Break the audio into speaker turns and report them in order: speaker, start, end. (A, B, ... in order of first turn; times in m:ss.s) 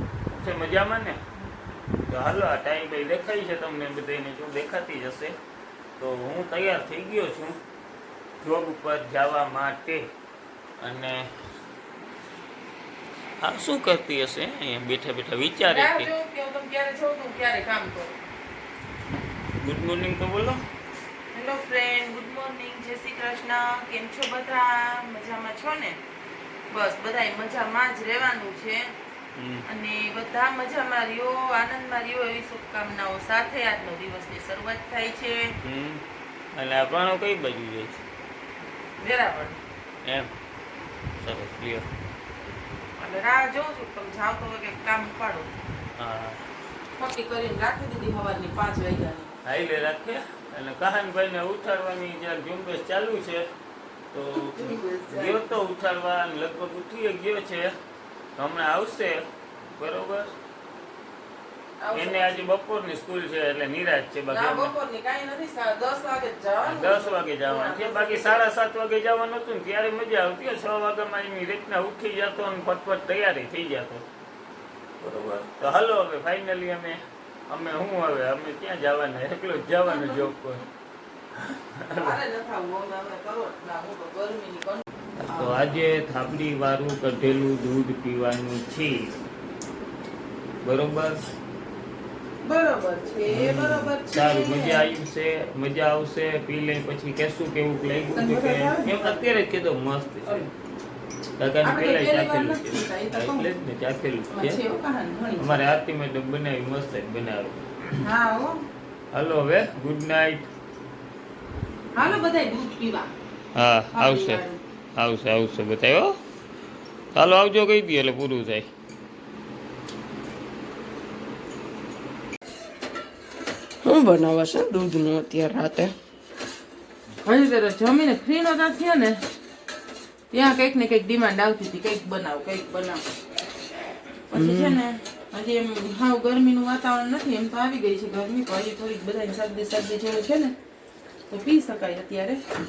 0:00.3-0:01.2 A
0:02.1-0:05.4 A
0:06.0-0:07.6 A
0:08.4-0:10.1 A
0:10.8-0:11.3 A
0:13.4-0:16.1 A
0:15.6-0:18.2 B
0:19.6-0:20.6 A
0:21.3-0:26.0 B
0:26.7-0:28.9 B
0:29.4-0:29.6 A
0:29.7-0:35.5 B
0:35.6-0:36.0 A
0:36.5-0:38.0 A
0:39.0-0:39.6 B
0:40.0-0:40.3 A
0:41.2-0:41.9 A
0:43.0-0:45.6 B
0:46.0-0:46.4 A
0:47.0-0:49.3 B
0:49.4-0:53.4 A
0:54.1-0:57.7 A
0:54.3-0:55.4 B
0:58.4-1:00.3 A
1:01.8-1:02.5 B
1:01.9-1:04.7 A
1:04.3-1:08.5 B
1:06.6-1:14.0 A
1:15.0-1:20.6 A
1:19.8-1:20.4 B
1:21.4-1:22.1 A
1:21.9-1:25.6 B
1:25.2-1:29.2 A
1:30.6-1:31.2 A
1:32.4-1:34.9 B
1:33.3-1:40.4 A
1:38.1-1:39.2 B
1:41.4-1:44.6 A
1:41.6-1:43.5 B
1:44.3-1:45.6 B
1:45.4-1:48.0 A
1:48.0-1:48.6 B
1:49.1-1:50.5 A
1:52.0-1:53.1 B
1:53.6-1:54.4 A
1:53.9-1:54.6 B
1:55.0-1:56.2 A
1:57.2-1:58.7 A
2:03.8-2:05.9 C
2:07.2-2:09.2 B
2:10.3-2:13.0 B
2:14.3-2:20.5 B
2:14.3-2:14.8 C
2:21.3-2:22.4 B